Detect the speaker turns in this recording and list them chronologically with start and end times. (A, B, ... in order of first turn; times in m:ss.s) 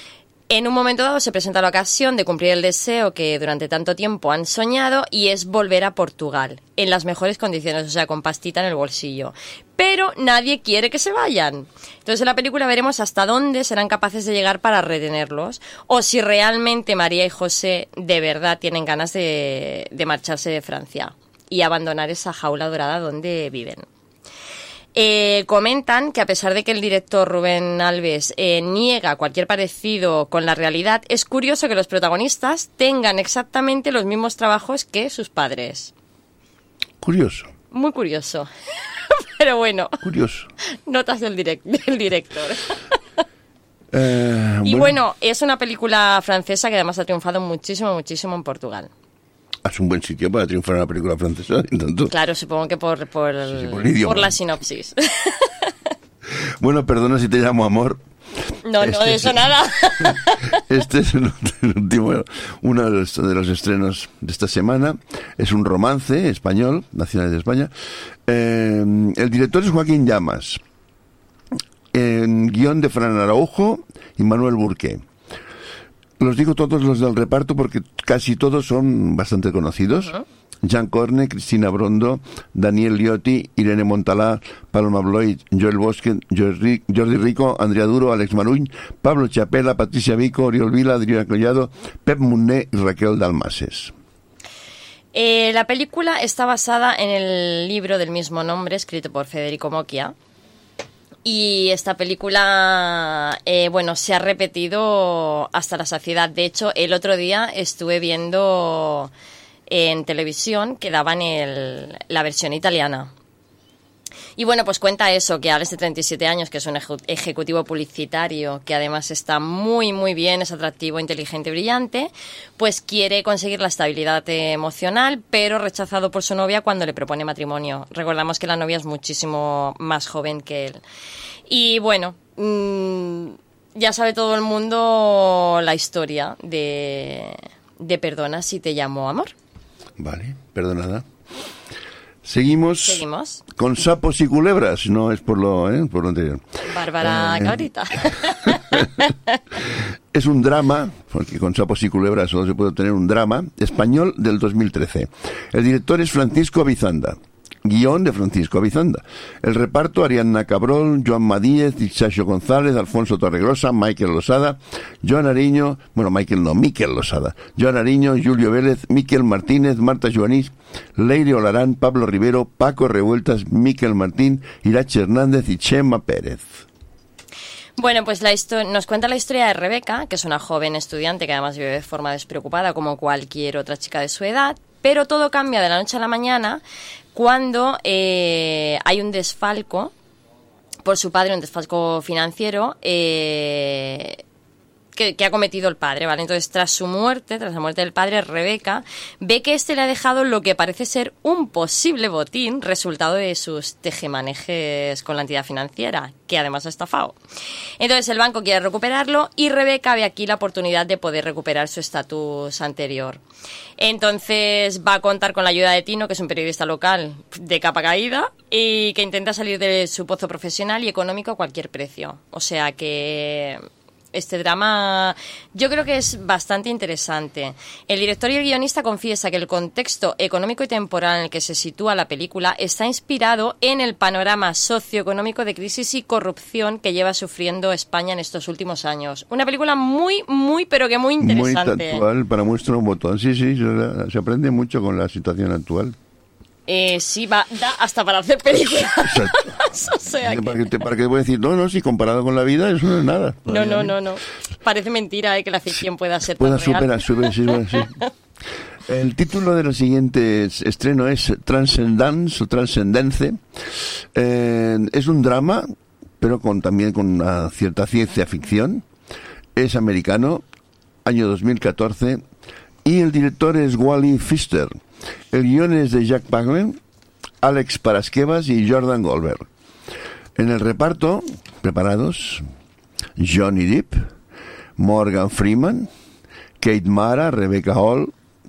0:00.5-0:23.8 A
0:25.0-0:35.9 A
0:37.0-0:37.5 B
0:37.7-0:38.5 A
0:39.1-0:40.0 A
0:40.0-0:40.5 B
0:40.9-0:42.7 A
0:43.9-0:45.0 B
0:44.6-0:48.9 A
0:49.6-0:52.1 B
0:52.1-0:55.5 A
0:53.5-0:54.4 B
0:56.6-0:58.0 B
0:58.6-1:00.4 A
0:58.8-0:59.3 B
1:00.6-1:07.7 B
1:08.3-1:10.6 B
1:11.9-1:15.0 B
1:16.2-1:33.9 B
1:35.1-1:40.1 A
1:41.2-1:49.1 A
1:49.7-1:53.1 A
1:54.4-2:10.8 A
2:11.5-2:19.3 A
2:20.0-2:21.1 B
2:22.2-2:27.6 B
2:22.8-2:23.4 A
2:26.7-2:29.4 A
2:30.1-2:56.7 B
2:57.8-3:06.6 A
3:07.1-3:09.9 A
3:10.8-3:14.2 A
3:15.0-3:27.2 A
3:27.8-3:33.2 A
3:33.8-3:43.6 A
3:44.1-4:02.0 A
4:01.2-4:06.0 B
4:06.7-4:10.7 A
4:09.1-4:09.5 B
4:10.2-4:13.9 B
4:13.5-4:17.9 A
4:16.4-4:17.9 B
4:18.9-4:28.9 B
4:29.6-4:30.4 B
4:31.0-4:32.2 B
4:32.8-4:34.8 B
4:35.3-4:36.8 B
4:37.4-4:39.5 B
4:40.4-4:42.4 B
4:43.2-4:44.1 B
4:44.8-4:45.9 B
4:46.6-4:48.1 B